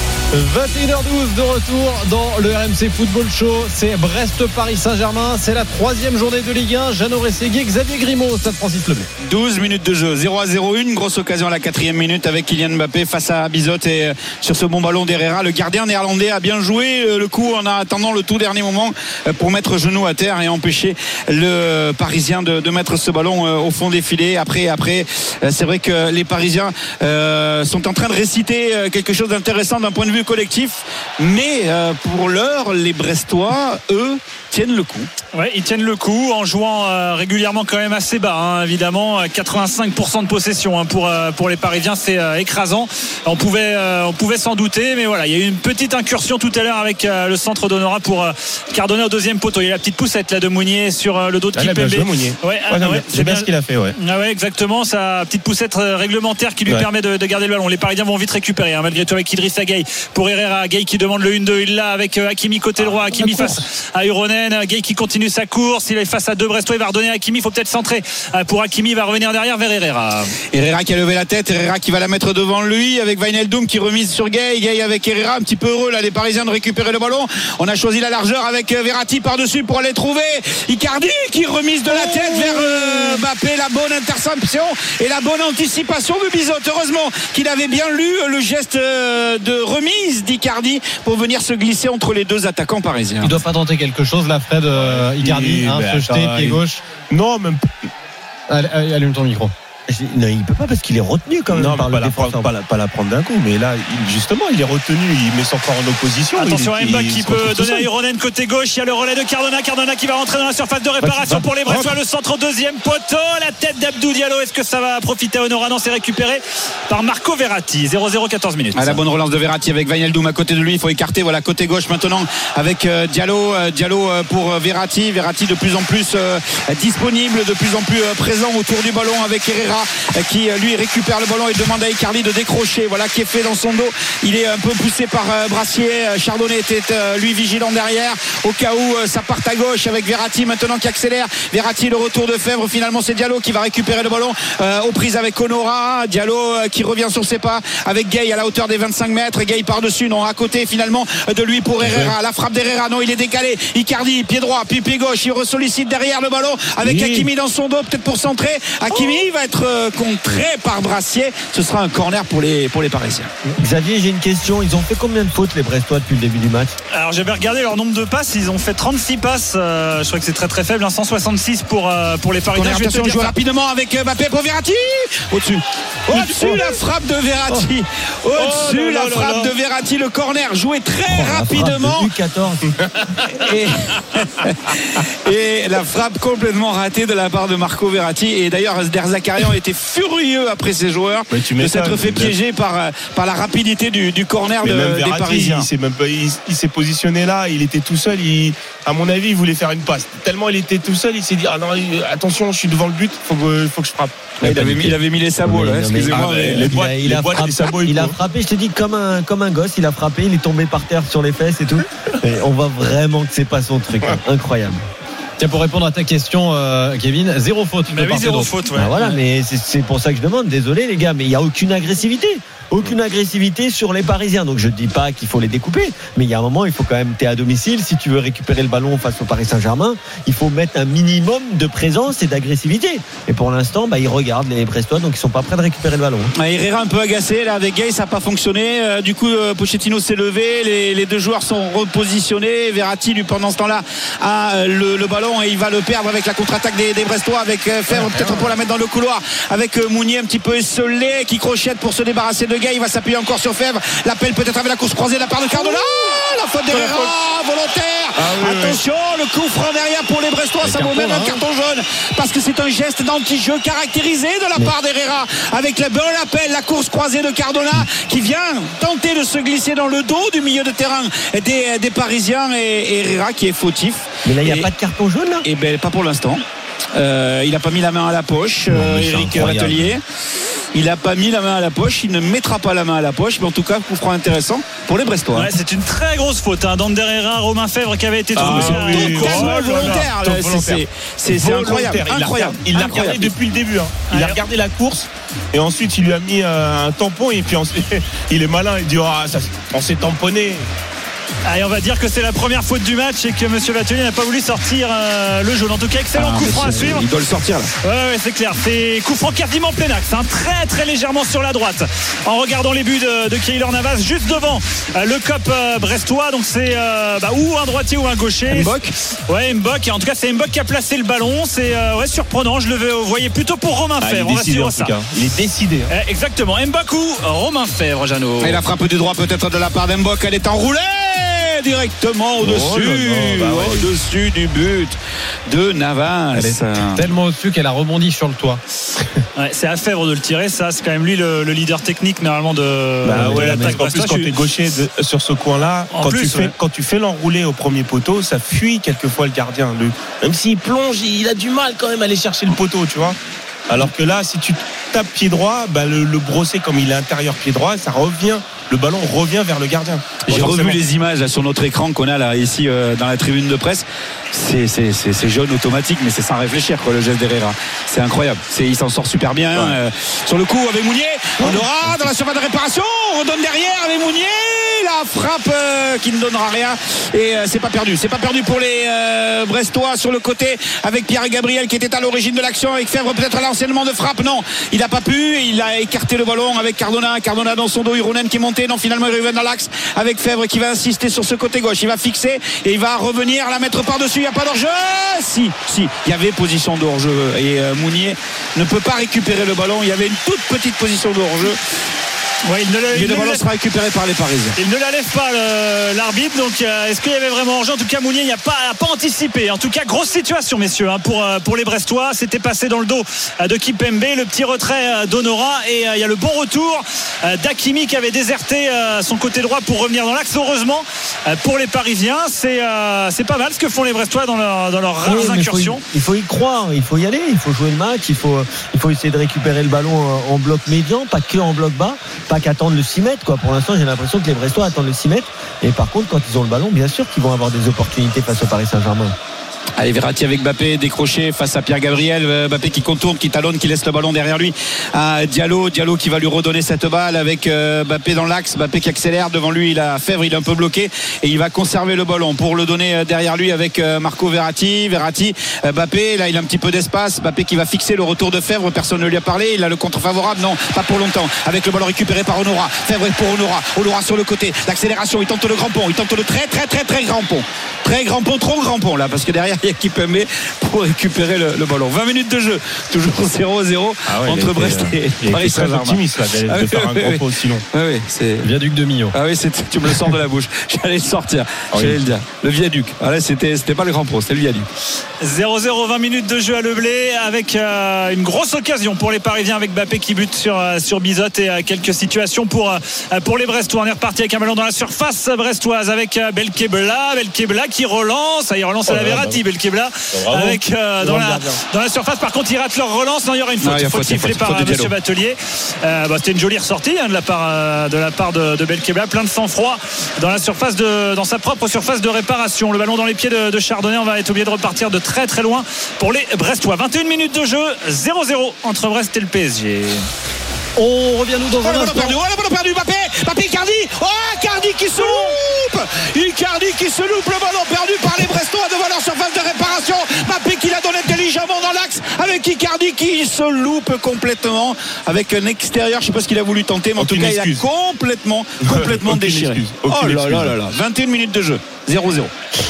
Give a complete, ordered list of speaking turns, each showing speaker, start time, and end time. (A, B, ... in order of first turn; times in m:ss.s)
0:00.3-0:09.1 A
0:09.2-0:35.1 B
0:35.3-1:10.3 C
0:51.6-0:54.0 D
1:02.8-1:03.6 D
1:10.5-1:33.4 B
1:21.9-1:23.2 D
1:33.2-1:36.8 A
1:34.7-1:37.7 D
1:38.5-1:39.5 A
1:39.9-1:42.5 E
1:41.5-1:47.9 D
1:46.4-1:59.0 C
1:51.0-1:52.0 D
1:58.8-2:43.3 B
2:31.8-2:32.2 D
2:36.8-2:37.3 D
2:43.6-2:46.7 E
2:47.0-2:53.3 C
2:52.6-3:02.1 B
2:56.1-2:56.8 D
2:58.4-2:59.5 D
3:01.1-3:02.7 E
3:02.7-3:03.3 D
3:03.3-3:15.7 B
3:11.3-3:12.4 D
3:14.6-3:24.7 D
3:24.4-3:26.7 B
3:24.4-3:34.8 E
3:26.1-3:28.2 D
3:35.4-3:38.5 A
3:37.9-3:39.2 C
3:38.8-3:56.3 E
3:56.4-4:34.7 B
4:07.9-4:08.5 D
4:15.6-4:15.8 D
4:16.7-4:17.1 D
4:18.2-4:18.8 D
4:20.6-4:21.4 A
4:34.2-4:35.5 E
4:35.4-4:36.4 B
4:37.0-4:40.0 B
4:38.7-4:40.0 E
4:40.7-4:45.5 B
4:45.3-4:50.1 C
4:48.4-5:00.7 D
4:48.4-4:53.3 B
4:54.1-4:54.4 C
5:01.5-5:07.0 C
5:06.2-5:07.7 B
5:07.8-5:18.8 C
5:18.5-5:18.9 B
5:19.3-5:24.9 C
5:24.0-5:25.9 D
5:25.9-5:28.6 C
5:28.4-5:35.0 B
5:32.4-5:33.9 D
5:35.5-5:37.1 B
5:36.3-5:38.6 A
5:39.4-5:44.4 C
5:43.0-5:53.2 D
5:43.1-5:43.8 E
5:45.9-5:46.5 C
5:53.7-6:00.8 D
6:00.2-6:41.6 B
6:11.4-6:12.0 D
6:42.4-6:43.4 C
6:42.9-6:44.6 B
6:44.6-7:05.8 C
7:05.0-7:19.2 E
7:19.8-7:58.5 B
7:54.1-7:57.6 D
7:58.4-7:59.2 A
7:59.1-8:04.7 B
8:01.7-8:02.0 D
8:05.2-8:40.1 C
8:18.9-8:19.4 D
8:20.1-8:21.6 D
8:23.6-8:24.9 B
8:40.8-8:42.2 A
8:41.6-9:02.3 B
8:57.0-8:57.6 D
8:58.6-9:00.6 D